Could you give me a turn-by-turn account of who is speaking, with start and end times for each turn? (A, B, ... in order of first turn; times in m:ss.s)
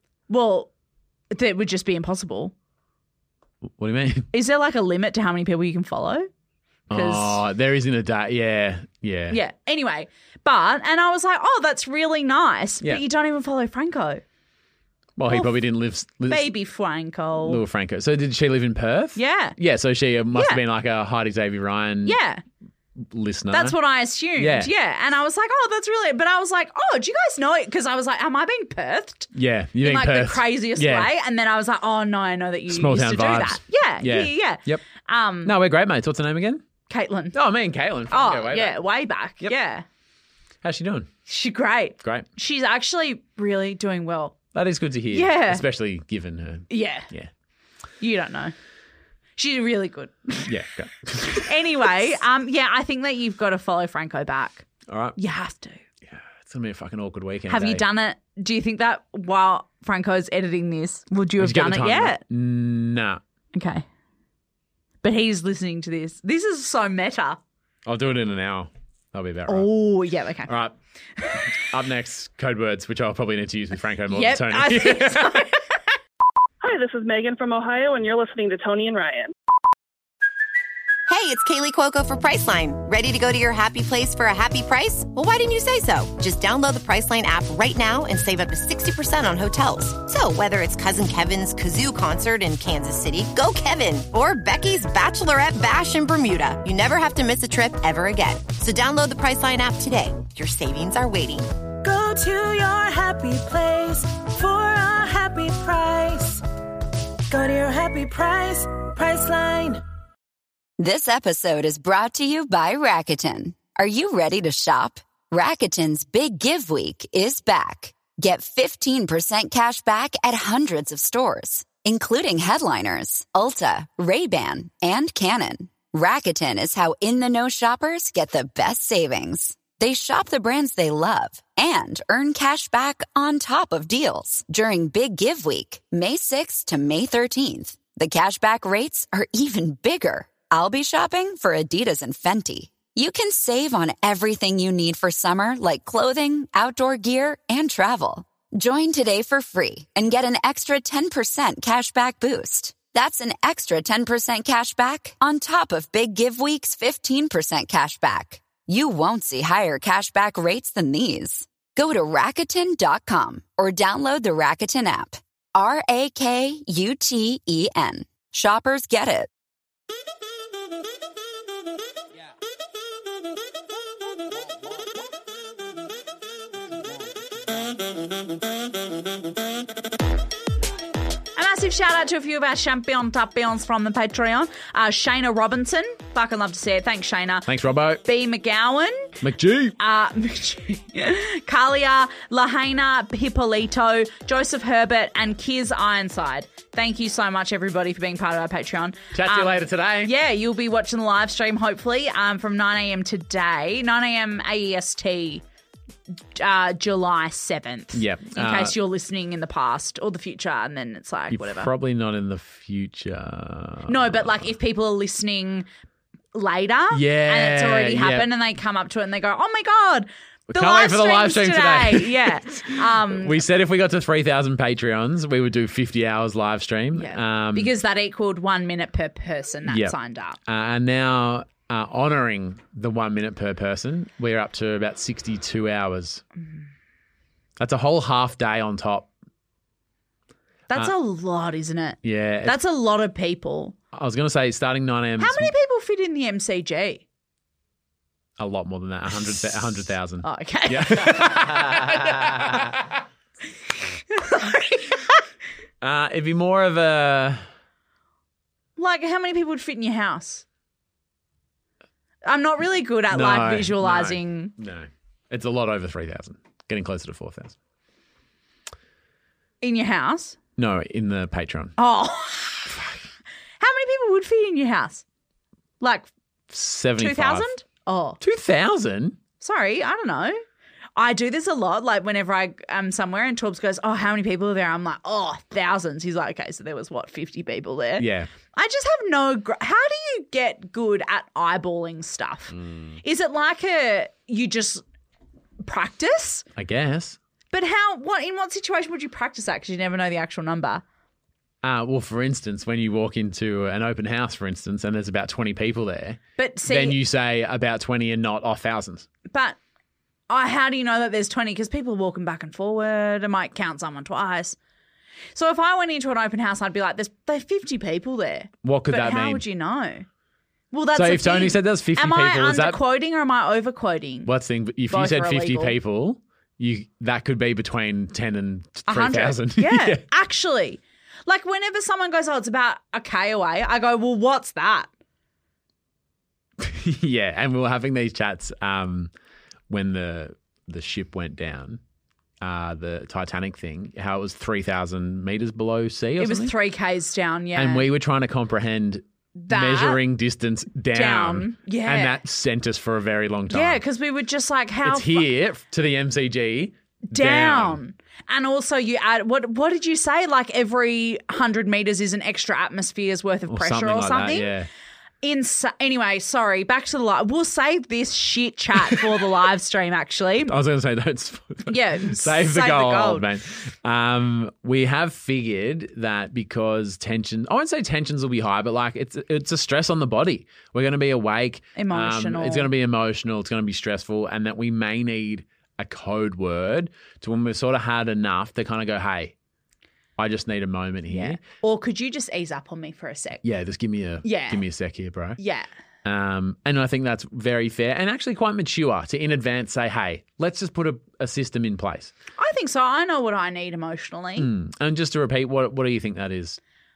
0:00.3-0:00.7 A
0:01.3-0:02.5 A
0:03.8-0:04.3 B
0:04.3-0:06.3 A
0:06.9-0:09.4 B
0:06.9-0:07.4 A
0:09.3-0:14.2 A
0:15.2-0:16.4 B
0:16.3-0:17.6 A
0:17.4-0:22.2 B
0:19.2-0:19.6 A
0:20.3-0:20.6 A
0:22.0-0:22.4 A
0:23.1-0:23.8 B
0:23.5-0:35.5 A
0:24.4-0:24.7 B
0:29.3-0:31.1 B
0:32.7-0:34.8 B
0:35.4-0:36.6 B
0:36.9-0:37.4 A
0:37.3-0:38.8 B
0:38.1-0:39.8 A
0:40.6-0:41.1 B
0:41.3-0:44.4 A
0:44.5-0:47.3 B
0:45.1-0:45.6 A
0:46.7-0:47.1 A
0:48.0-0:48.5 A
0:49.4-0:50.5 A
0:50.5-0:51.9 B
0:51.3-0:54.6 A
0:54.9-0:55.2 B
0:55.2-0:55.8 A
0:56.0-0:57.8 B
0:57.5-1:02.2 A
1:01.4-1:03.2 B
1:03.5-1:03.8 A
1:05.0-1:07.4 A
1:07.8-1:09.7 B
1:09.5-1:10.5 A
1:10.5-1:10.7 B
1:11.6-1:15.4 B
1:14.1-1:15.6 A
1:16.6-1:19.3 C
1:21.1-1:41.5 D
1:41.8-1:46.4 E
1:47.3-1:49.8 E
1:50.8-2:49.3 F
3:01.4-3:07.5 A
3:07.4-3:08.0 B
3:08.0-3:09.1 A
3:09.2-3:09.8 B
3:09.8-3:25.4 A
3:19.1-3:20.1 B
3:26.3-3:31.7 A
3:27.9-3:28.7 B
3:31.3-3:34.5 B
3:33.9-3:35.7 A
3:36.3-3:43.4 A
3:36.9-3:38.3 B
3:40.5-3:47.7 B
3:47.0-3:50.4 A
3:49.7-3:49.9 B
3:50.4-3:56.2 B
3:57.6-3:59.1 B
4:00.7-4:03.8 A
4:02.0-4:02.6 B
4:03.9-4:05.5 B
4:05.2-4:07.0 A
4:08.4-4:12.8 B
4:10.2-4:11.7 A
4:14.0-4:15.2 A
4:15.8-4:17.4 B
4:18.8-4:20.4 A
4:22.2-4:24.5 A
4:23.1-4:27.6 B
4:29.6-4:30.4 A
4:30.6-4:31.7 B
4:31.8-4:32.8 A
4:32.7-4:33.0 B
4:33.6-4:35.0 A
4:35.8-4:36.1 A
4:36.5-4:37.5 B
4:37.0-4:38.2 A
4:38.2-4:39.2 B
4:39.4-4:40.4 A
4:41.0-4:54.8 A
4:48.0-4:48.3 B
4:55.6-4:56.4 A
4:56.6-4:57.2 B
4:57.5-5:00.8 A
5:01.6-5:09.1 B
5:06.4-5:07.0 A
5:09.3-5:09.6 A
5:10.3-5:14.6 A
5:15.3-5:20.0 A
5:18.6-5:19.4 B
5:20.7-5:24.3 A
5:20.9-5:22.8 B
5:24.2-5:30.0 B
5:24.9-5:25.7 A
5:28.9-5:34.9 A
5:36.6-5:39.1 B
5:39.7-5:41.8 B
5:42.4-5:46.5 B
5:46.2-5:47.8 A
5:47.5-5:53.8 B
5:49.4-5:50.0 A
5:50.9-5:52.2 A
5:53.5-5:55.3 A
5:54.8-5:57.8 B
5:57.1-6:04.5 A
6:03.5-6:04.7 B
6:05.2-6:10.5 A
6:10.5-6:29.3 B
6:11.7-6:13.2 A
6:21.8-6:22.7 A
6:30.2-6:31.4 B
6:31.1-6:33.4 A
6:33.4-6:35.4 B
6:34.2-6:34.6 A
6:35.4-6:35.7 A
6:36.0-6:42.1 B
6:42.4-6:44.5 A
6:44.4-6:46.6 B